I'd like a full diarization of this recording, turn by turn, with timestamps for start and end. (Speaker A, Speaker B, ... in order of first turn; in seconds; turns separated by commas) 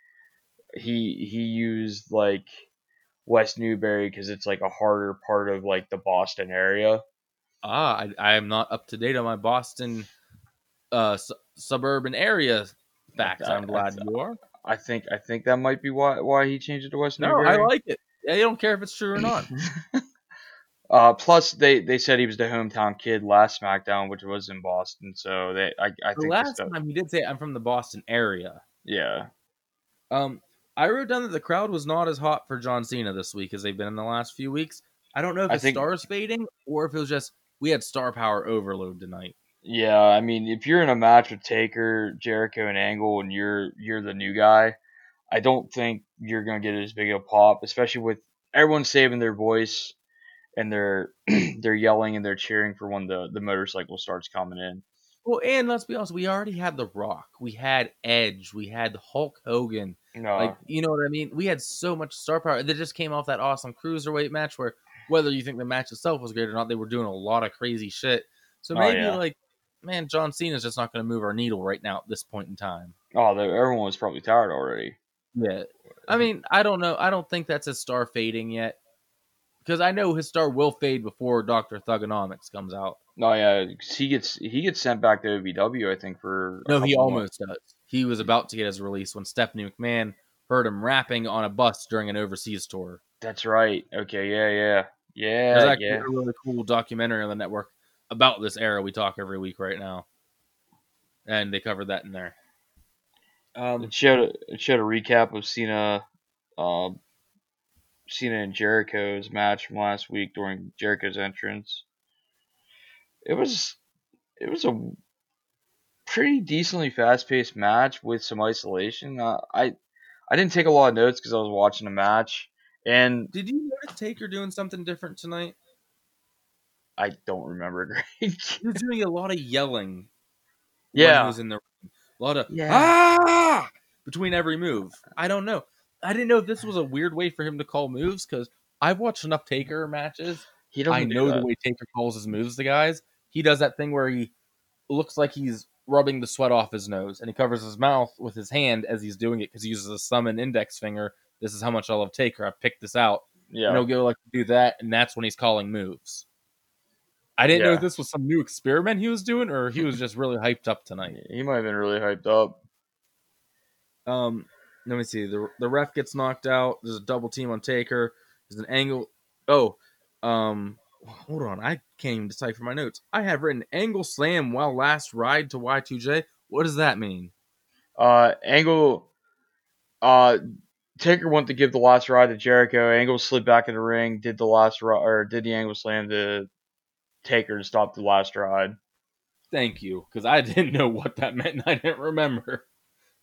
Speaker A: 0.7-2.6, Speaker A: 3.3-7.0, Speaker B: 7.6-10.1, Speaker B: 10.9-14.4, Speaker A: 13.2-14.0, Speaker A: 14.6-17.7, Speaker B: 17.2-19.5, Speaker A: 19.7-20.0, Speaker A: 20.9-26.7, Speaker B: 26.2-28.6, Speaker A: 28.9-29.3, Speaker B: 30.1-39.4, Speaker A: 35.5-35.9, Speaker A: 39.6-44.8, Speaker A: 45.3-50.0, Speaker A: 50.6-54.8, Speaker B: 55.2-73.0, Speaker A: 60.1-60.6, Speaker A: 68.7-69.2, Speaker A: 73.1-75.0, Speaker B: 75.3-78.8, Speaker B: 79.6-83.0, Speaker A: 83.2-87.2, Speaker B: 86.7-93.0, Speaker A: 93.2-96.1, Speaker B: 95.5-100.1, Speaker B: 101.3-102.3, Speaker B: 103.6-103.9, Speaker A: 103.8-106.1, Speaker A: 106.6-107.0, Speaker A: 108.1-111.8, Speaker A: 113.2-113.8, Speaker A: 114.4-115.0, Speaker A: 116.1-119.7, Speaker A: 120.3-123.3, Speaker B: 123.3-125.6, Speaker A: 127.0-128.6, Speaker B: 128.6-130.1, Speaker A: 130.9-131.4, Speaker B: 130.9-144.3, Speaker A: 132.5-132.9, Speaker A: 140.7-141.5, Speaker B: 144.9-156.2, Speaker A: 153.5-153.8, Speaker B: 157.4-161.2, Speaker A: 157.5-157.8, Speaker A: 161.1-162.6, Speaker B: 164.1-177.3, Speaker A: 178.0-179.1, Speaker A: 180.0-180.4, Speaker A: 181.0-186.5, Speaker A: 187.2-188.8, Speaker B: 189.5-192.7